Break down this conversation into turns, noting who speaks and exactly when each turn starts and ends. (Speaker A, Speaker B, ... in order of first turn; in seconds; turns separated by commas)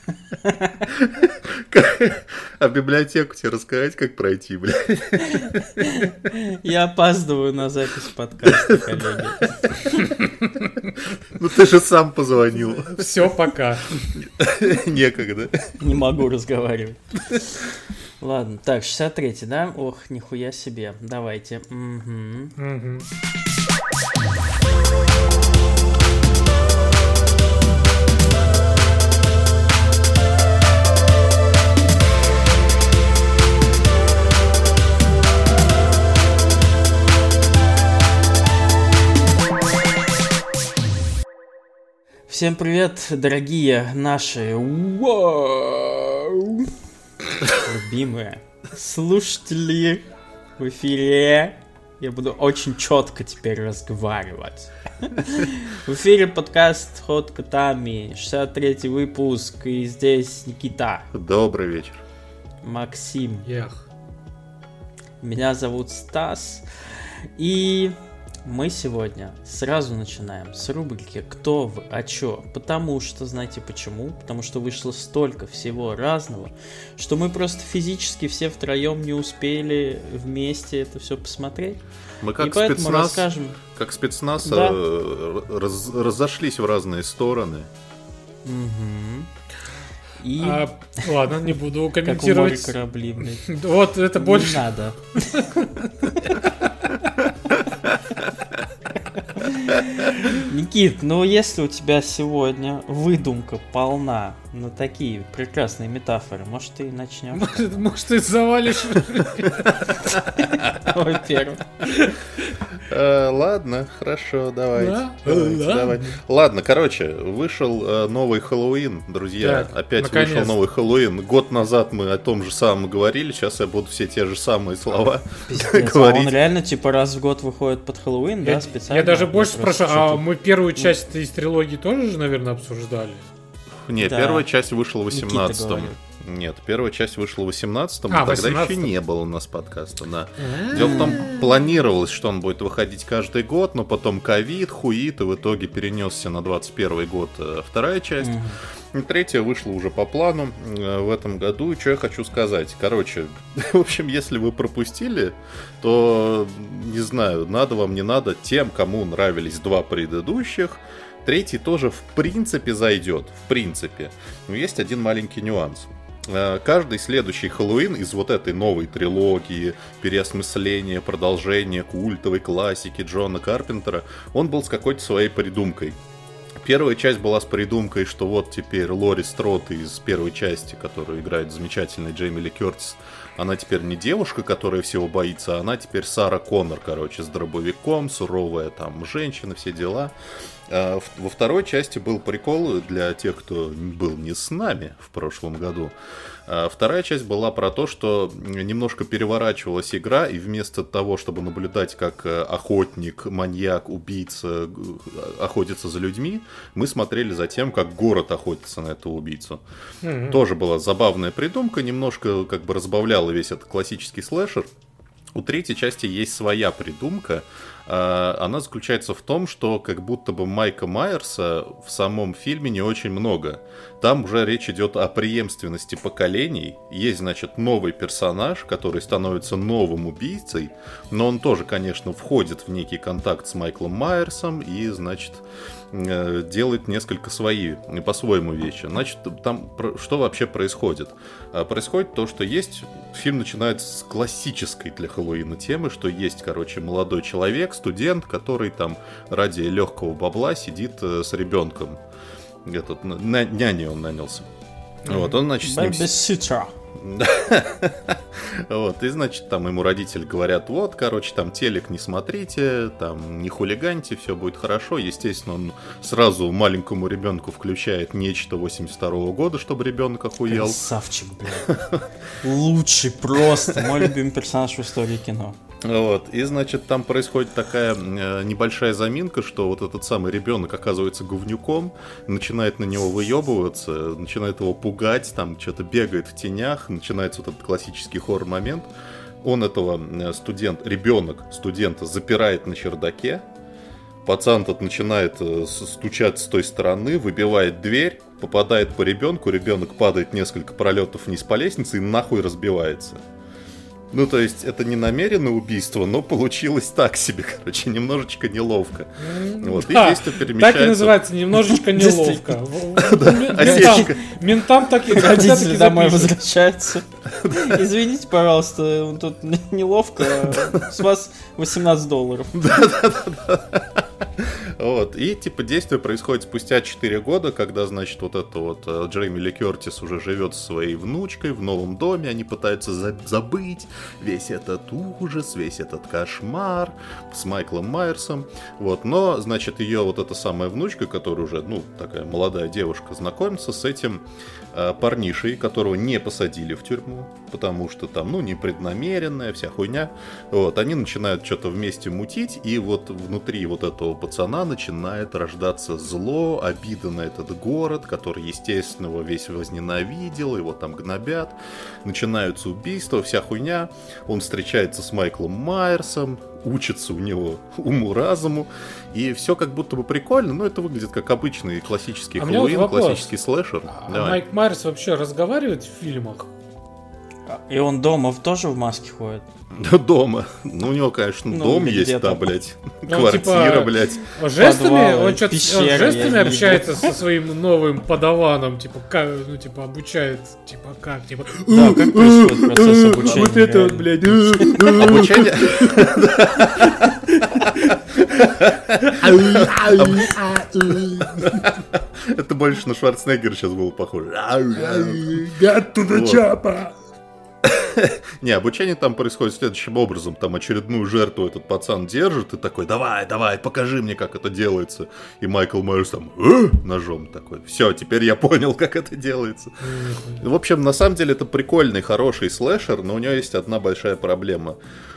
Speaker A: 0.4-0.8, Speaker B: 0.9-5.8, Speaker A: 5.4-10.1, Speaker B: 11.0-13.2, Speaker C: 12.9-14.1, Speaker B: 14.2-15.8, Speaker A: 15.8-17.4, Speaker A: 18.2-22.6, Speaker C: 22.6-23.1, Speaker A: 42.3-46.8, Speaker A: 47.5-50.1, Speaker A: 50.6-61.1, Speaker B: 61.1-62.0, Speaker A: 62.6-63.5, Speaker C: 63.5-63.8, Speaker A: 65.2-81.8, Speaker B: 82.2-87.7, Speaker A: 82.4-83.6, Speaker A: 84.4-84.8, Speaker A: 88.5-89.3, Speaker A: 90.2-91.1, Speaker C: 90.4-92.8, Speaker A: 92.0-93.5, Speaker C: 93.4-95.9, Speaker A: 94.2-95.5, Speaker A: 99.0-107.6, Speaker C: 107.3-110.1, Speaker B: 110.4-110.8, Speaker A: 110.5-112.0, Speaker C: 111.8-112.5, Speaker B: 112.8-126.3, Speaker C: 114.8-116.2, Speaker C: 119.4-120.5, Speaker A: 125.5-130.2, Speaker C: 128.4-133.3, Speaker B: 133.9-148.4, Speaker A: 134.0-134.5, Speaker A: 135.1-136.0, Speaker C: 138.1-138.9, Speaker C: 140.4-141.4, Speaker A: 140.8-141.2, Speaker A: 148.2-148.6, Speaker B: 148.9-176.0, Speaker B: 176.6-190.1, Speaker B: 190.7-195.9, Speaker B: 196.5-209.6, Speaker C: 210.0-210.4, Speaker B: 210.2-214.7, Speaker B: 215.3-252.0, Speaker B: 252.7-254.5, Speaker B: 255.1-256.1, Speaker C: 255.1-255.3, Speaker A: 255.6-256.8, Speaker B: 257.0-270.8, Speaker A: 270.5-271.7, Speaker B: 271.7-272.1, Speaker A: 272.4-275.6, Speaker B: 273.7-274.1, Speaker B: 275.8-288.9, Speaker B: 289.4-293.4, Speaker B: 294.2-303.2, Speaker B: 304.1-311.2, Speaker C: 309.2-316.3, Speaker A: 311.8-312.7, Speaker B: 313.0-314.3, Speaker A: 313.6-314.2, Speaker A: 315.0-322.7, Speaker B: 317.3-317.8, Speaker B: 322.5-374.4, Speaker C: 372.4-373.3, Speaker C: 373.9-376.5, Speaker A: 377.5-379.4, Speaker B: 379.7-384.3, Speaker A: 381.5-382.5, Speaker C: 383.1-401.7, Speaker A: 384.6-387.1, Speaker A: 391.7-395.0, Speaker B: 394.9-397.2, Speaker B: 398.1-406.5, Speaker C: 404.8-406.9, Speaker B: 407.6-424.8, Speaker C: 419.8-420.4